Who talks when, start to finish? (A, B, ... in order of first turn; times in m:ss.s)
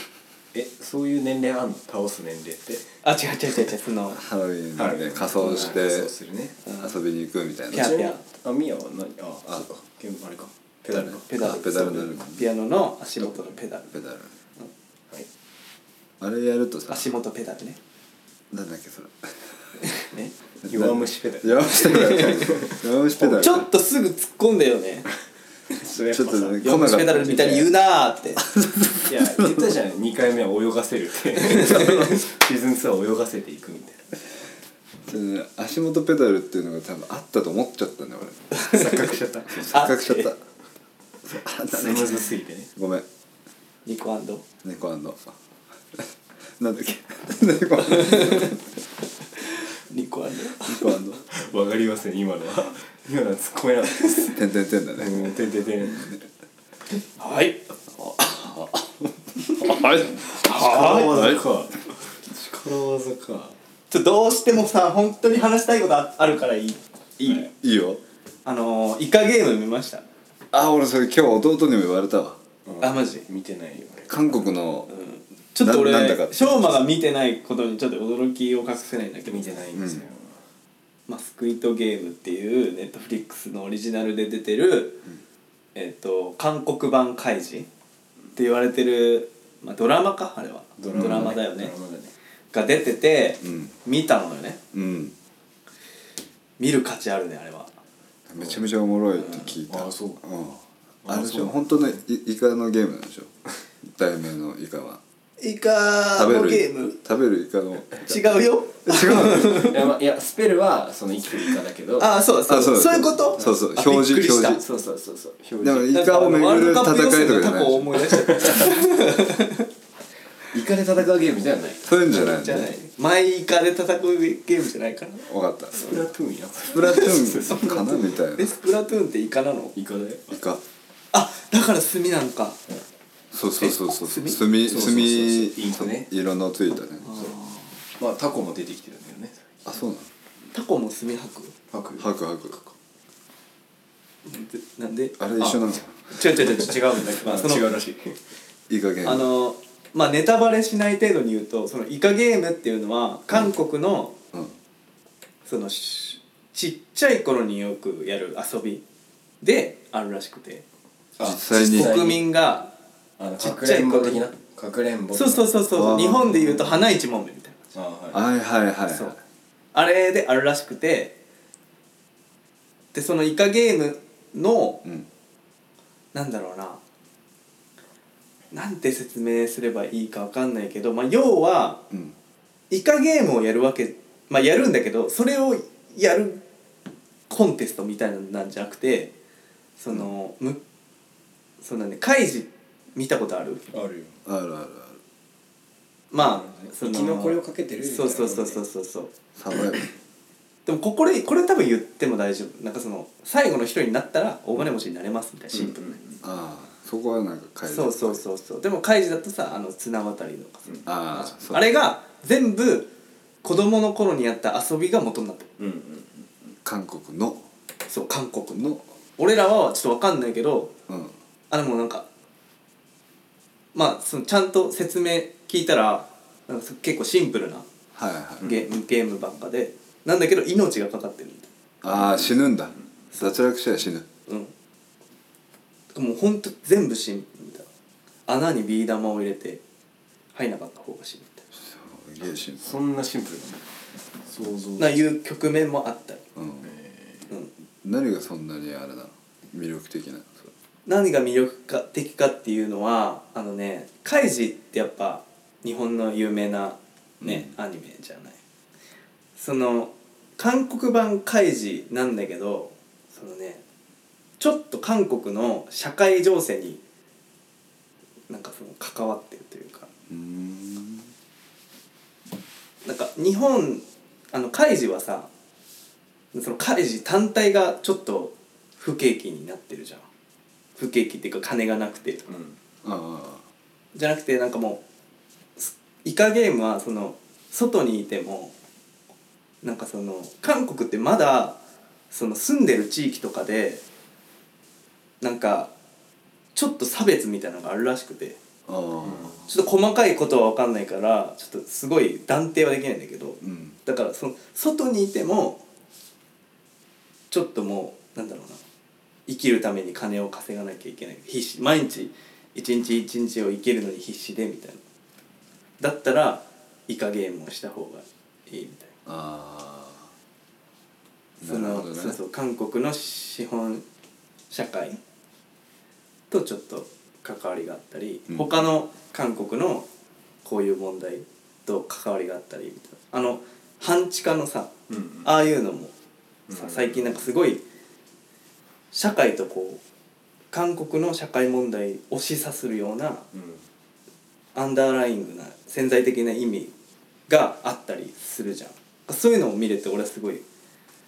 0:00.5-0:02.8 A
0:03.0-0:04.2 B
0:04.1-0:06.1 C
0:04.8-0:06.6 A
0:06.8-0:08.0 C
0:07.7-0:08.2 B
0:07.7-0:11.2 A
0:10.9-0:12.5 C
0:11.3-0:13.9 B
0:13.2-0:14.3 C
0:16.2-0:17.1 C
0:16.9-0:17.8 B
0:18.5-0:19.4 C
0:19.9-0:20.3 B
0:20.6-0:23.7 C
0:20.7-0:22.7 A
0:21.7-0:22.6 B
0:23.3-0:25.1 B
0:25.7-0:27.2 A
0:26.1-0:27.7 C
0:26.6-0:28.4 B
0:28.4-0:29.7 C
0:29.0-0:34.1 A
0:35.1-0:38.4 C
0:38.6-0:39.7 A
0:39.5-0:40.4 C
0:39.7-0:40.3 B
0:41.3-0:43.0 C
0:41.7-0:42.7 A
0:43.8-0:44.4 B
0:44.6-0:45.3 C
0:46.6-0:48.6 C
0:47.8-0:48.6 B
0:49.4-0:50.9 B
0:50.6-0:51.2 C
0:51.3-0:54.4 A
0:54.3-0:55.3 C
0:55.0-0:56.1 A
0:57.0-0:57.7 B
0:58.0-1:01.4 C
0:59.4-0:59.7 B
1:00.3-1:01.2 B
1:00.6-1:01.8 A
1:02.3-1:03.5 C
1:03.9-1:07.4 B
1:07.2-1:08.0 C
1:08.4-1:10.0 B
1:10.5-1:12.4 C
1:12.6-1:14.5 A
1:12.8-1:13.2 B
1:14.1-1:14.9 C
1:14.9-1:19.6 B
1:15.6-1:16.8 C
1:19.2-1:20.4 A
1:19.7-1:20.0 C
1:21.1-1:25.0 B
1:25.7-1:27.7 B
1:28.3-1:31.7 B
1:30.8-1:32.1 A
1:30.9-1:31.3 C
1:32.5-1:34.6 B
1:33.4-1:33.7 C
1:34.7-1:35.1 C
1:36.6-1:37.7 B
1:38.3-1:43.3 C
1:38.4-1:38.7 A
1:39.3-1:40.2 A
1:41.0-1:42.0 A
1:43.8-1:45.0 C
1:45.4-1:47.0 B
1:46.1-1:49.6 C
1:48.0-1:49.8 B
1:49.3-1:52.1 A
1:52.0-1:54.6 B
1:52.5-1:54.6 C
1:54.6-1:56.2 A
1:55.6-1:58.0 C
1:55.9-1:59.7 B
1:58.4-1:58.6 A
2:00.5-2:01.8 A
2:01.8-2:02.8 C
2:02.1-2:05.2 B
2:05.2-2:05.9 C
2:05.7-2:07.8 A
2:06.7-2:08.6 C
2:06.9-2:09.7 B
2:09.7-2:10.2 A
2:10.3-2:10.6 C
2:11.1-2:12.6 B
2:13.3-2:17.0 C
2:13.6-2:14.4 B
2:14.6-2:16.1 A
2:17.0-2:17.6 B
2:17.1-2:17.4 A
2:18.0-2:19.6 A
2:19.6-2:20.1 C
2:20.5-2:21.5 B
2:21.7-2:22.7 A
2:22.0-2:22.6 C
2:24.2-2:27.7 B
2:25.2-2:25.9 C
2:26.4-2:28.2 A
2:28.7-2:29.3 C
2:29.0-2:34.2 B
2:35.4-2:38.8 B
2:39.4-2:40.6 B
2:41.2-2:42.3 A
2:41.2-2:42.0 C
2:41.5-2:42.7 B
2:43.2-2:46.7 A
2:43.4-2:44.3 B
2:45.1-2:47.7 B
2:45.7-2:46.6 C
2:47.7-2:48.2 A
2:48.1-2:49.2 C
2:49.7-2:51.2 B
2:52.9-2:54.8 B
2:56.1-2:56.8 B
2:58.5-3:01.8 B
3:02.7-3:06.4 B
3:07.3-3:09.1 B
3:09.8-3:10.6 B
3:11.6-3:13.6 B
3:13.7-3:14.2 A
3:14.2-3:15.0 C
3:16.1-3:19.1 B
3:16.1-3:18.6 A
3:19.4-3:19.9 C
3:20.6-3:26.0 B
3:25.5-3:26.2 A
3:26.2-3:28.2 C
3:27.7-3:32.9 B
3:30.8-3:31.7 C
3:33.4-3:35.5 B
3:35.6-3:36.5 A
3:36.6-3:37.4 C
3:37.9-3:40.7 B
3:38.6-3:38.8 C
3:40.9-3:41.1 C
3:41.5-3:42.1 B
3:43.7-3:47.7 B
3:47.9-3:48.5 C
3:48.4-3:51.5 B
3:51.8-3:54.0 C
3:51.9-3:52.4 A
3:54.3-3:54.5 B
3:55.9-3:57.6 B
3:58.3-3:59.6 B
4:00.3-4:01.4 B
4:01.5-4:02.7 C
4:02.5-4:03.6 A
4:04.2-4:05.0 A
4:04.8-4:06.2 B
4:06.4-4:06.7 C
4:06.6-4:07.3 A
4:07.8-4:10.5 C
4:10.8-4:18.4 B
4:17.2-4:17.5 C
4:19.4-4:23.6 B
4:24.4-4:26.8 B
4:28.3-4:29.9 B
4:30.1-4:31.1 C
4:32.8-4:35.3 B
4:36.3-4:40.0 B
4:40.8-4:42.4 B
4:42.3-4:42.6 A
4:42.8-4:43.4 C
4:43.9-4:44.8 B
4:45.6-4:48.5 B
4:49.6-4:51.6 B
4:52.1-4:53.8 B
4:55.2-4:55.7 B
4:56.5-4:58.4 B
4:58.7-4:59.4 C
4:59.1-4:59.4 A
4:59.5-5:05.6 B
5:03.4-5:03.8 C
5:07.3-5:08.6 B
5:09.3-5:14.8 B
5:15.8-5:18.9 B
5:19.0-5:20.1 C
5:21.4-5:22.2 C
5:21.4-5:23.8 B
5:24.5-5:25.0 B
5:26.3-5:29.9 B
5:28.3-5:28.6 C
5:30.4-5:34.7 B
5:34.9-5:35.3 A
5:35.2-5:35.9 B
5:36.5-5:37.3 A
5:36.5-5:37.6 B
5:38.9-5:39.8 B
5:40.5-5:43.2 B
5:43.3-5:43.6 A
5:44.5-5:46.7 B
5:47.3-5:50.4 B